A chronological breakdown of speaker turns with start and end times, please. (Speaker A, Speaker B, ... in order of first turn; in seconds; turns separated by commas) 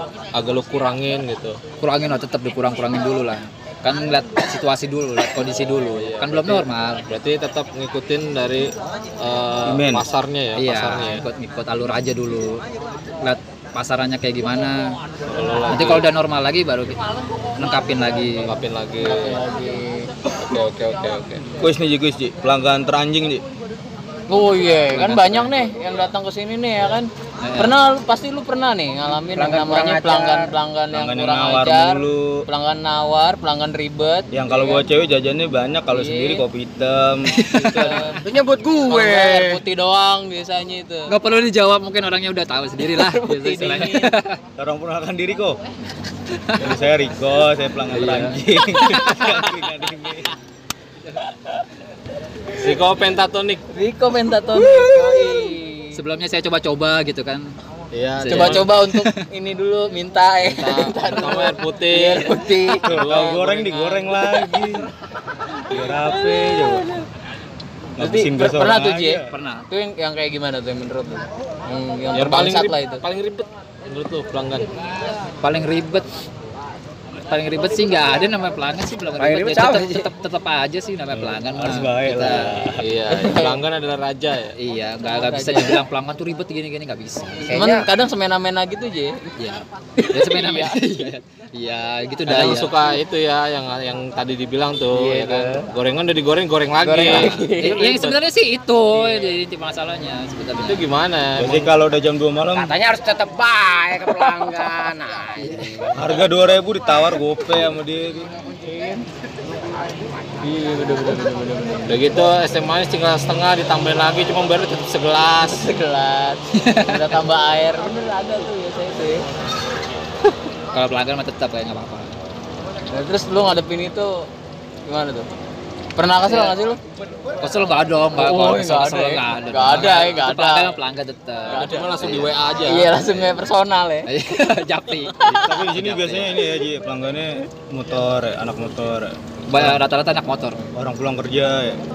Speaker A: 0.3-1.6, Speaker B: 1.8-7.0, Speaker A: 5.7-11.2, Speaker C: 9.7-10.0, Speaker B: 10.5-12.6, Speaker B: 13.2-14.9, Speaker A: 15.3-16.1, Speaker B: 15.7-17.0, Speaker B: 17.6-18.5, Speaker A: 18.4-19.4, Speaker D: 19.0-20.1, Speaker A: 20.4-21.4, Speaker C: 21.6-23.4, Speaker D: 24.3-34.8, Speaker B: 24.9-25.5, Speaker B: 27.4-27.8, Speaker E: 29.4-30.5, Speaker C: 30.9-32.4, Speaker C: 34.3-37.4, Speaker D: 35.9-36.5, Speaker B: 37.3-38.1, Speaker D: 37.5-38.2, Speaker E: 38.2-39.6, Speaker D: 38.9-41.1, Speaker B: 41.1-44.4, Speaker D: 42.9-44.1, Speaker C: 44.5-45.6, Speaker B: 46.3-46.7, Speaker C: 46.6-50.3, Speaker B: 47.9-49.5, Speaker D: 51.2-51.6, Speaker A: 52.5-53.6, Speaker D: 53.7-56.0, Speaker B: 55.9-57.5, Speaker A: 57.9-58.7, Speaker B: 58.2-59.1, Speaker D: 58.2-63.3, Speaker A: 60.4-64.2, Speaker C: 62.8-64.9, Speaker D: 64.3-64.6, Speaker C: 65.7-66.9, Speaker D: 65.7-67.0, Speaker C: 68.0-69.3, Speaker D: 68.0-73.0, Speaker B: 69.3-69.6, Speaker A: 72.1-74.7, Speaker B: 75.4-76.1, Speaker B: 77.2-82.8, Speaker E: 79.2-80.1, Speaker C: 81.2-82.8, Speaker A: 82.8-84.6, Speaker D: 83.1-83.6, Speaker B: 84.5-87.5, Speaker D: 85.1-85.8, Speaker E: 87.4-87.9, Speaker D: 87.5-89.3, Speaker B: 89.4-92.7, Speaker D: 90.0-91.1, Speaker A: 92.3-98.1, Speaker E: 94.9-95.7, Speaker D: 96.8-98.1, Speaker B: 97.5-100.8, Speaker A: 100.6-101.7, Speaker C: 101.4-102.8, Speaker E: 102.5-106.2, Speaker C: 105.9-108.4, Speaker E: 108.7-109.0, Speaker D: 110.4-112.1, Speaker A: 111.9-115.7, Speaker D: 115.4-119.3, Speaker B: 116.5-117.0, Speaker B: 120.7-122.1, Speaker D: 122.9-124.3, Speaker D: 124.8-125.3, Speaker D: 126.0-126.8, Speaker B: 126.3-126.5, Speaker B: 127.4-132.3, Speaker D: 128.2-130.8, Speaker A: 131.4-133.0, Speaker D: 131.5-132.1, Speaker D: 132.6-134.1, Speaker B: 134.1-136.4, Speaker C: 135.2-139.8, Speaker B: 139.5-140.7, Speaker C: 140.7-141.8